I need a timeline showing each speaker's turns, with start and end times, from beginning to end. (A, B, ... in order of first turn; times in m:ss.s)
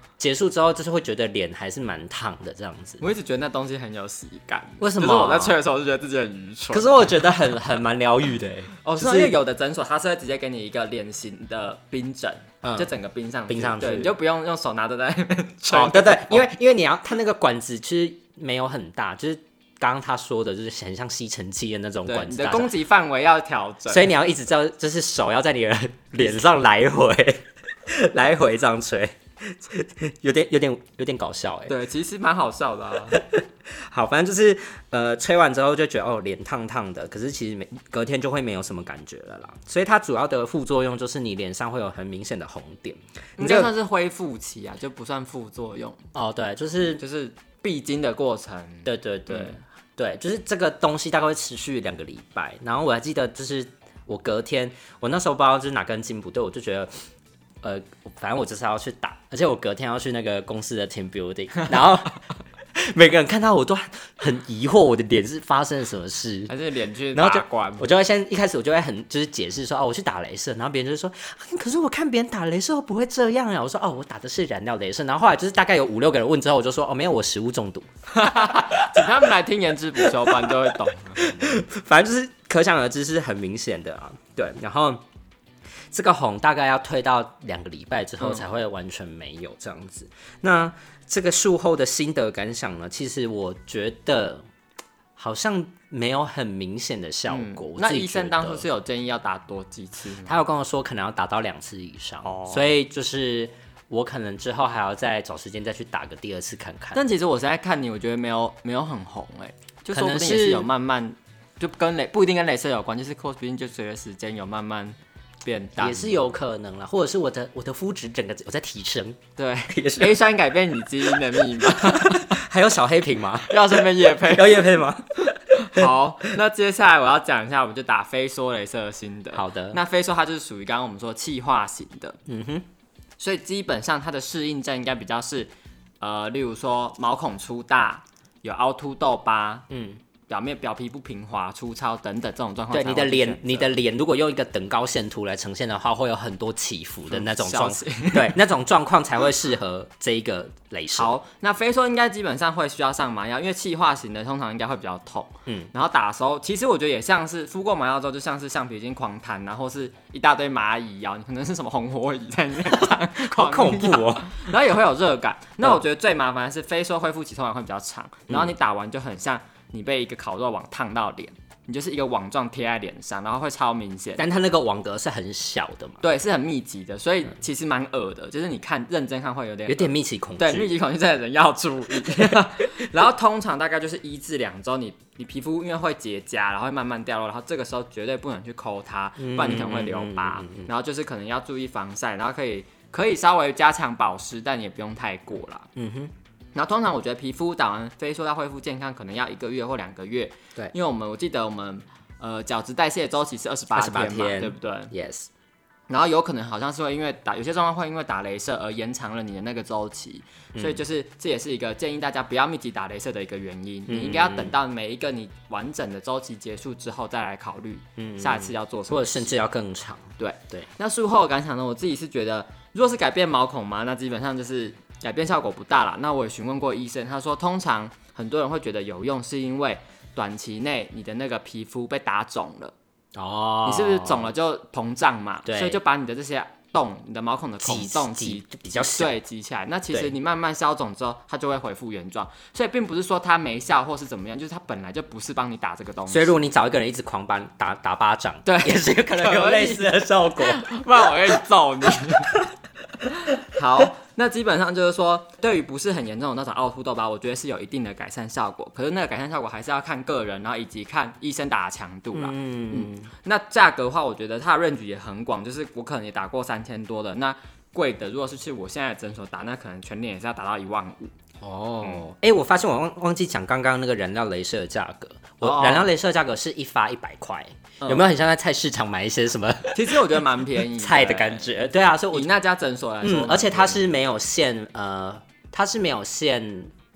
0:00.2-0:03.0 A
0:03.0-0:06.9 B
0:04.8-0:05.6 A
0:06.7-0:09.4 A
0:08.8-0:16.5 B
0:12.6-0:12.9 A
0:13.5-0:14.1 A
0:15.7-0:22.7 A
0:22.0-0:24.1 B
0:23.9-0:31.7 A
0:31.7-0:33.2 B
0:33.1-0:43.7 A
0:43.4-0:46.0 B
0:46.1-0:47.0 A
0:47.0-0:49.6 B
0:48.8-0:56.9 A
0:57.6-1:02.2 A
1:02.7-1:06.5 A
1:06.5-1:07.9 B
1:07.1-1:19.1 A
1:18.1-1:21.6 B
1:20.0-1:25.0 A
1:25.9-1:34.4 A
1:35.2-1:38.6 A
1:37.3-1:40.4 B
1:40.2-1:47.0 A
1:42.2-1:42.7 B
1:46.9-1:56.2 B
1:49.9-1:50.7 A
1:55.8-2:00.2 A
1:59.4-2:02.4 B
2:01.0-2:05.9 A
2:03.5-2:04.8 B
2:05.5-2:12.2 B
2:09.3-2:09.8 A
2:12.3-2:12.6 A
2:13.2-2:19.6 B
2:19.7-2:20.0 A
2:20.3-2:23.7 B
2:22.7-2:31.2 A
2:27.1-2:28.4 B
2:31.0-2:54.3 B
2:42.8-2:44.4 A
2:48.3-2:48.5 A
2:54.2-2:56.0 A
2:56.0-3:15.7 B
2:59.7-3:00.7 A
3:02.0-3:02.4 A
3:09.2-3:10.7 A
3:15.8-3:16.1 A
3:16.5-3:24.9 B
3:23.7-3:25.3 A
3:25.9-3:39.4 B
3:30.5-3:30.8 A
3:33.9-3:34.6 A
3:38.0-3:40.7 A
3:40.2-3:52.7 B
3:53.2-3:54.3 A
3:53.6-4:06.4 B
3:55.4-3:55.8 A
3:57.6-3:59.1 A
4:06.1-4:11.4 A
4:08.4-4:12.4 B
4:13.2-4:31.1 B
4:22.1-4:23.1 A
4:31.4-4:42.3 A
4:35.4-4:35.9 B
4:37.8-4:38.0 B
4:39.7-4:41.6 B
4:42.1-4:44.0 B
4:43.0-4:46.7 A